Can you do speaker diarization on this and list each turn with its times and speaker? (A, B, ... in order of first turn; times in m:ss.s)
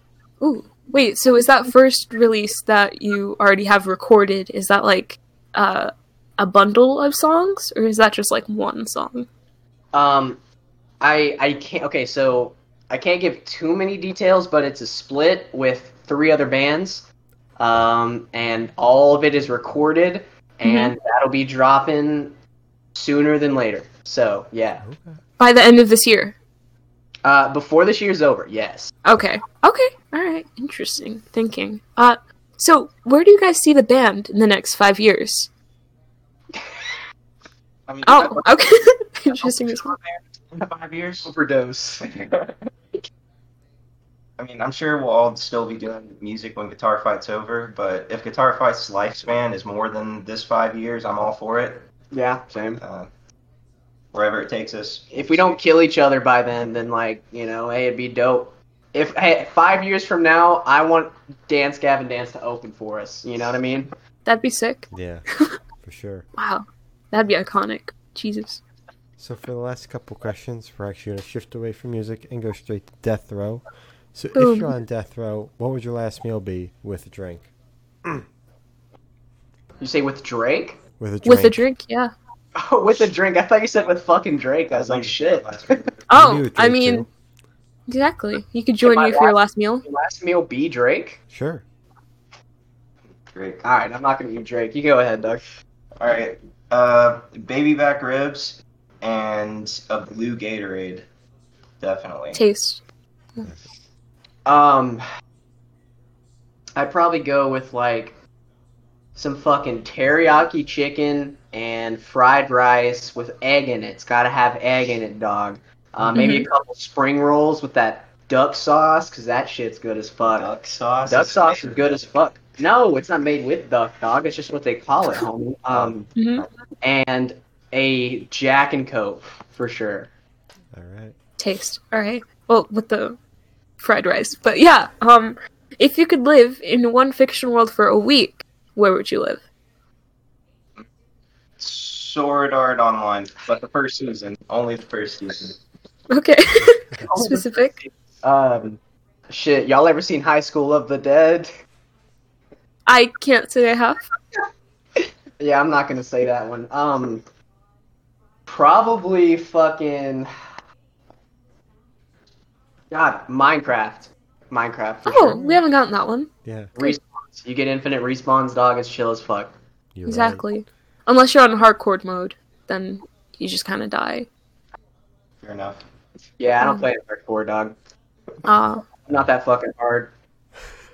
0:00.4-0:09.3 A
0:09.9-0:10.4 B
0:11.0-0:17.1 B
0:17.6-0:22.3 B
0:20.6-0:20.9 A
0:22.9-0:24.8 B
0:24.8-0:25.2 C
0:25.4-0:26.3 A
0:27.2-0:28.9 B
0:29.0-0:35.5 A
0:37.9-0:38.6 D
0:38.0-0:39.9 A
0:39.3-0:41.3 D
0:41.2-0:42.1 B
0:44.4-0:51.8 D
0:52.1-0:52.8 B
0:52.8-0:53.1 D
0:54.1-0:55.6 D
0:55.1-1:03.9 B
1:04.2-1:05.6 A
1:04.9-1:05.2 C
1:05.8-1:06.2 C
1:06.4-1:08.6 A
1:09.2-1:17.5 C
1:14.3-1:14.7 A
1:19.8-1:20.8 B
1:21.0-1:21.6 C
1:21.2-1:22.1 A
1:22.5-1:25.8 B
1:24.7-1:25.9 D
1:26.1-1:27.0 A
1:26.1-1:27.1 C
1:27.9-1:29.8 A
1:28.8-1:31.2 B
1:31.3-1:31.6 C
1:33.3-1:33.6 D
1:33.6-1:35.4 B
1:36.0-1:41.0 D
1:41.8-1:42.4 D
1:42.3-1:42.8 A
1:44.4-1:45.0 B
1:46.8-1:48.2 B
1:49.2-2:00.5 B
1:56.1-1:56.5 A
2:00.2-2:02.0 D
2:01.1-2:06.1 B
2:06.2-2:06.4 A
2:06.8-2:10.1 B
2:10.7-2:11.2 C
2:11.4-2:13.2 A
2:13.8-2:19.4 A
2:21.6-2:25.6 D
2:26.1-2:27.8 A
2:27.1-2:31.5 B
2:32.9-2:34.0 A
2:35.4-2:37.2 B
2:38.5-2:40.3 B
2:42.9-2:45.4 B
2:45.0-2:47.0 A
2:45.2-2:45.6 C
2:46.4-2:46.7 C
2:46.8-2:49.5 B
2:49.9-2:50.5 C
2:50.0-2:54.3 A
2:55.4-2:55.8 D
2:56.4-2:57.8 B
2:56.6-2:56.8 A
2:58.4-2:58.9 A
2:59.0-3:00.1 B